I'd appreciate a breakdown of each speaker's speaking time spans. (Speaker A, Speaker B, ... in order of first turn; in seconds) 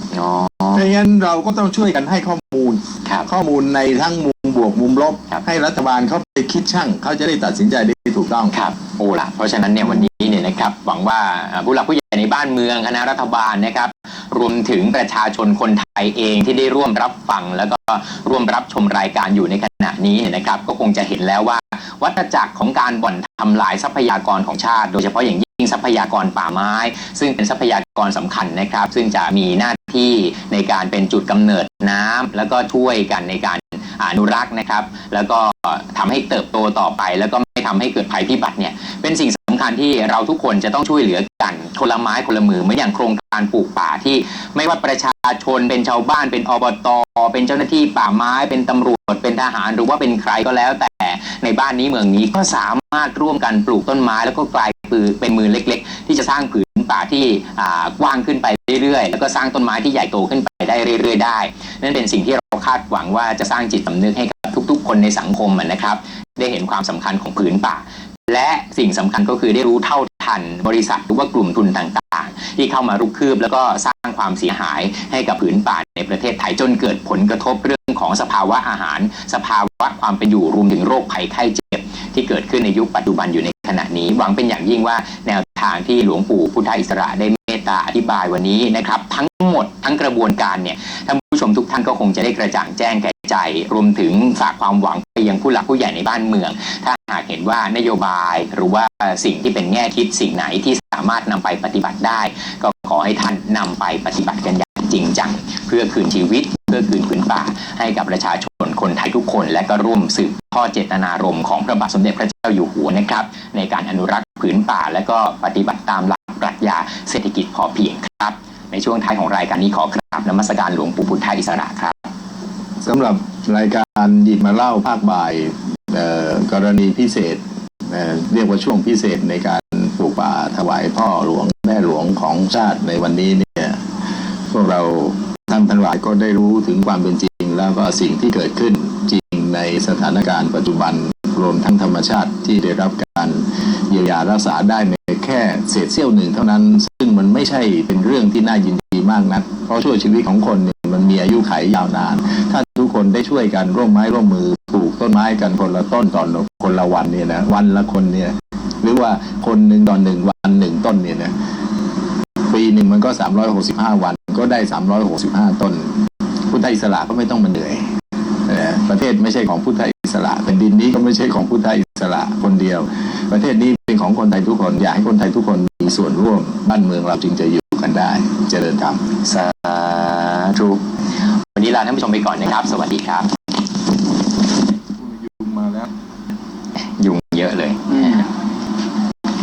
Speaker A: 0.1-0.9, 8.5-122.0, 179.2-183.3, 186.8-188.3
Speaker B: 0.7-8.5, 122.8-133.8, 134.5-161.3, 162.4-167.9, 168.5-179.1, 185.0-185.9, 187.9-188.3